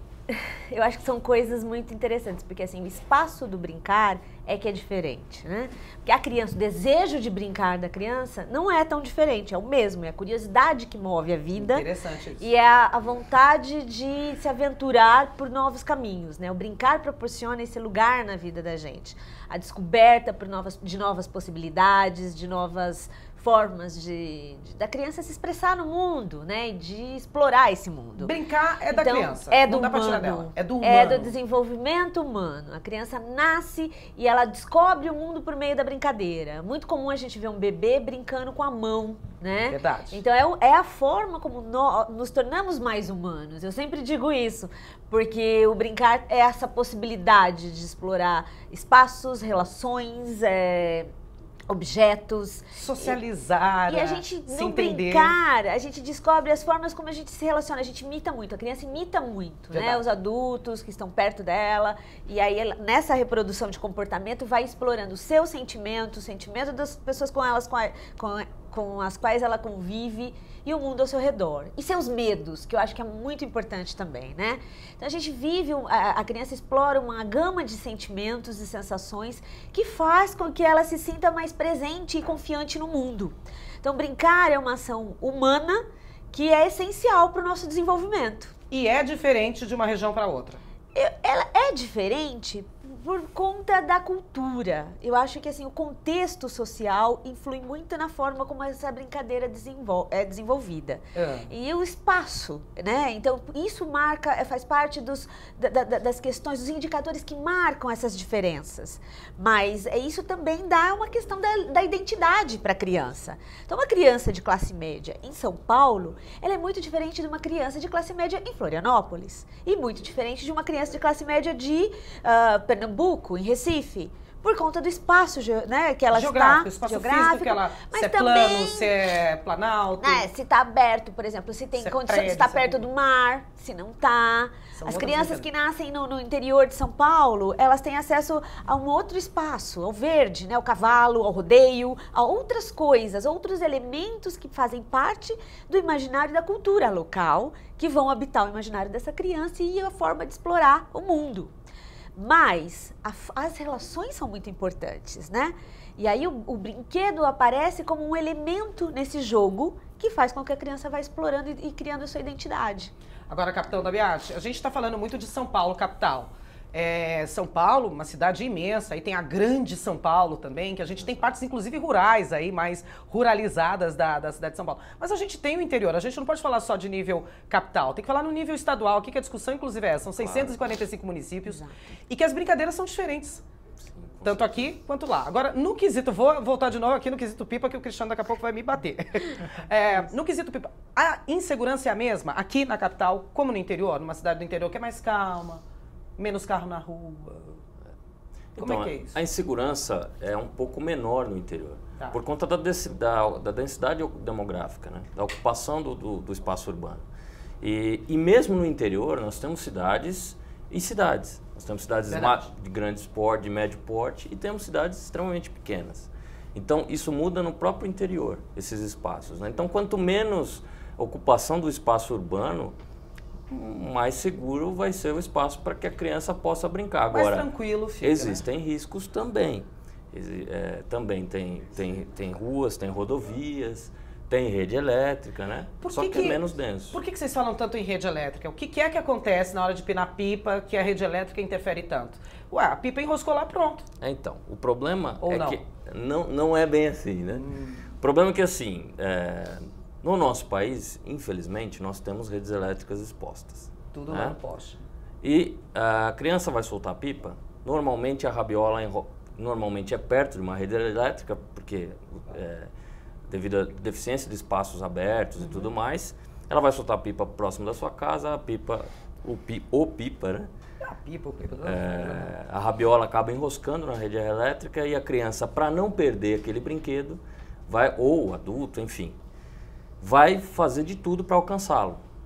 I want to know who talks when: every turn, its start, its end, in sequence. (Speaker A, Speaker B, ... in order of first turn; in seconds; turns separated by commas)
Speaker A: 0.3-11.9, Speaker B: 11.6-12.5, Speaker A: 12.4-28.4, Speaker B: 28.2-31.3, Speaker A: 28.9-51.1, Speaker B: 39.7-40.2, Speaker A: 51.7-53.2, Speaker B: 52.8-55.4, Speaker A: 53.9-88.5, Speaker B: 59.7-60.0, Speaker B: 88.7-90.6, Speaker A: 90.9-129.0, Speaker B: 101.2-101.5, Speaker B: 126.1-130.3, Speaker A: 130.0-151.5, Speaker B: 131.8-132.8, Speaker B: 134.8-135.5, Speaker A: 152.1-162.9, Speaker B: 163.3-183.4, Speaker C: 180.2-180.6, Speaker A: 181.4-181.9, Speaker C: 183.9-184.7, Speaker B: 184.2-195.6, Speaker B: 196.2-197.6, Speaker C: 198.6-207.1, Speaker B: 198.6-199.1, Speaker C: 207.6-222.8, Speaker B: 212.1-212.4, Speaker C: 223.5-227.5, Speaker B: 227.1-228.4, Speaker C: 228.0-237.0, Speaker B: 235.8-236.4, Speaker B: 236.9-243.9, Speaker C: 244.0-247.4, Speaker B: 245.2-245.6, Speaker B: 247.3-247.8, Speaker C: 248.0-254.4, Speaker B: 253.9-254.8, Speaker C: 255.2-262.7, Speaker C: 263.3-270.5, Speaker B: 270.8-272.3, Speaker C: 271.6-279.2, Speaker C: 280.0-282.0